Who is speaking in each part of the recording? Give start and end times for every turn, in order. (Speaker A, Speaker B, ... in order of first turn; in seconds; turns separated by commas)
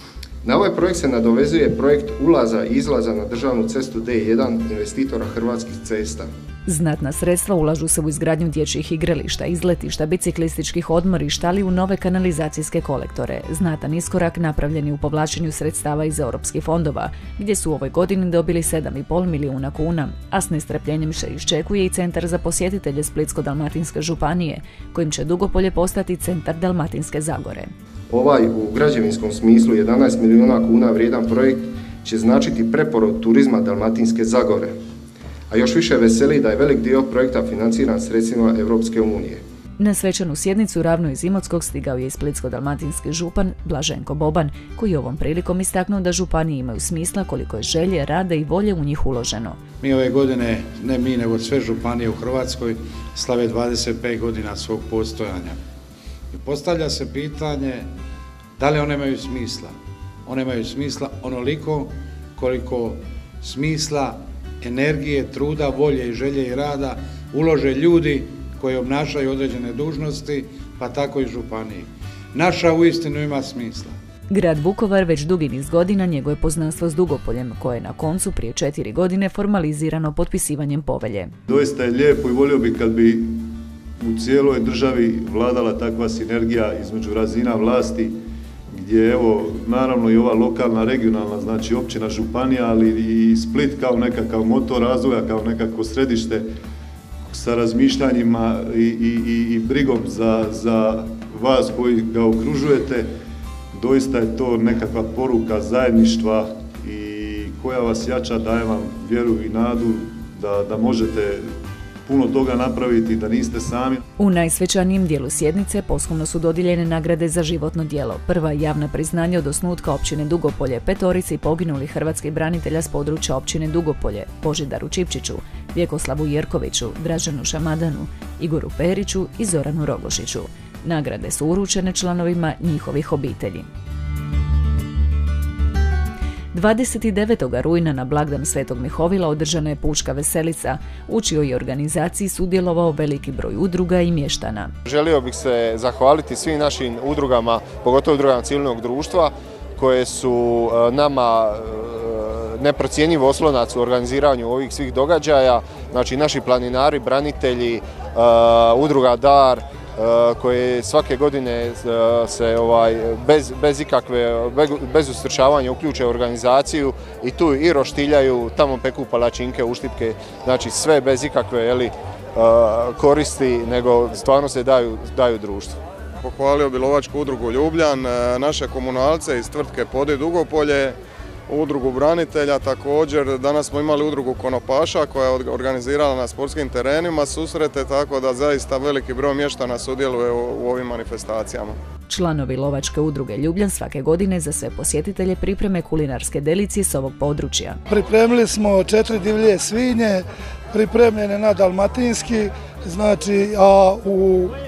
Speaker A: 0.4-6.3, Speaker B: 6.7-27.7, Speaker A: 28.1-34.7, Speaker A: 35.5-39.4, Speaker B: 39.8-49.6, Speaker C: 49.8-55.6, Speaker C: 56.3-57.9, Speaker C: 58.6-59.7, Speaker C: 60.2-73.9, Speaker B: 74.3-81.3, Speaker D: 81.5-83.5, Speaker D: 84.0-88.1, Speaker D: 88.8-96.4, Speaker D: 97.3-103.1, Speaker D: 103.7-111.4, Speaker D: 112.0-114.0, Speaker B: 114.2-133.7, Speaker B: 136.5-144.7, Speaker A: 144.8-175.8, Speaker E: 176.2-181.0, Speaker E: 181.5-191.8, Speaker B: 192.1-197.8, Speaker F: 197.9-204.5